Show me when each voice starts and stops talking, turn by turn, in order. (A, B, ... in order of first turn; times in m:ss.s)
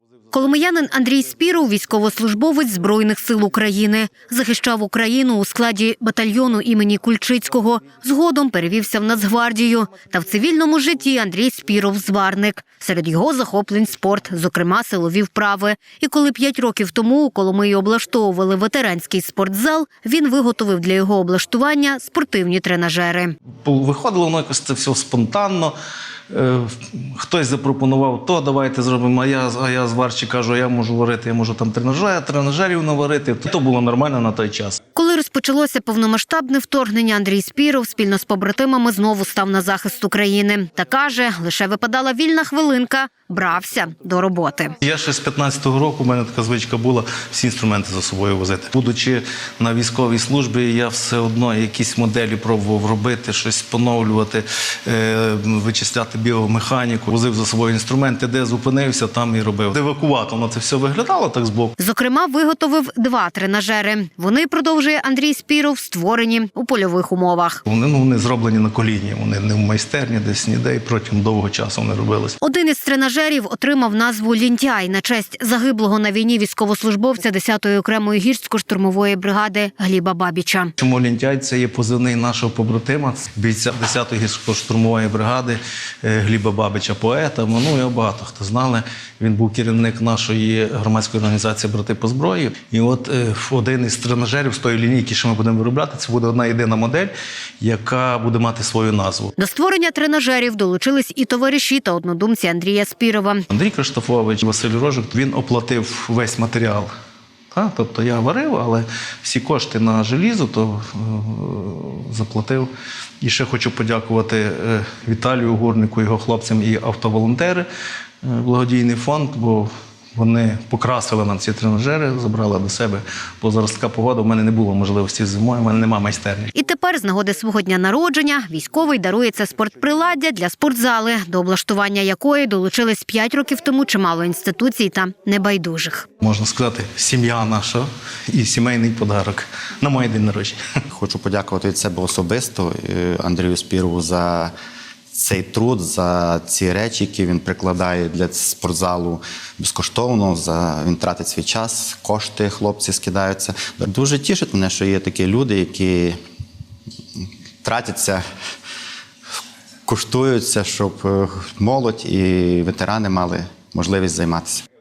0:00.3-0:23.4 A
0:23.6-0:25.7 B
0:26.3-0:34.8 B
0:35.0-0:44.7 A
0:44.8-1:01.7 B
1:01.8-1:07.6 A
1:07.6-1:12.4 B
1:12.4-1:20.7 A
1:20.8-1:39.3 B
1:39.4-1:43.4 A
1:43.5-1:46.9 B
1:47.5-1:52.7 B
1:53.2-1:57.7 B
1:58.2-2:06.5 B
2:06.5-2:16.1 A
2:16.2-2:20.6 B
2:20.9-2:24.5 C
2:25.1-2:36.2 C
2:37.6-2:38.2 C
2:39.9-2:44.6 C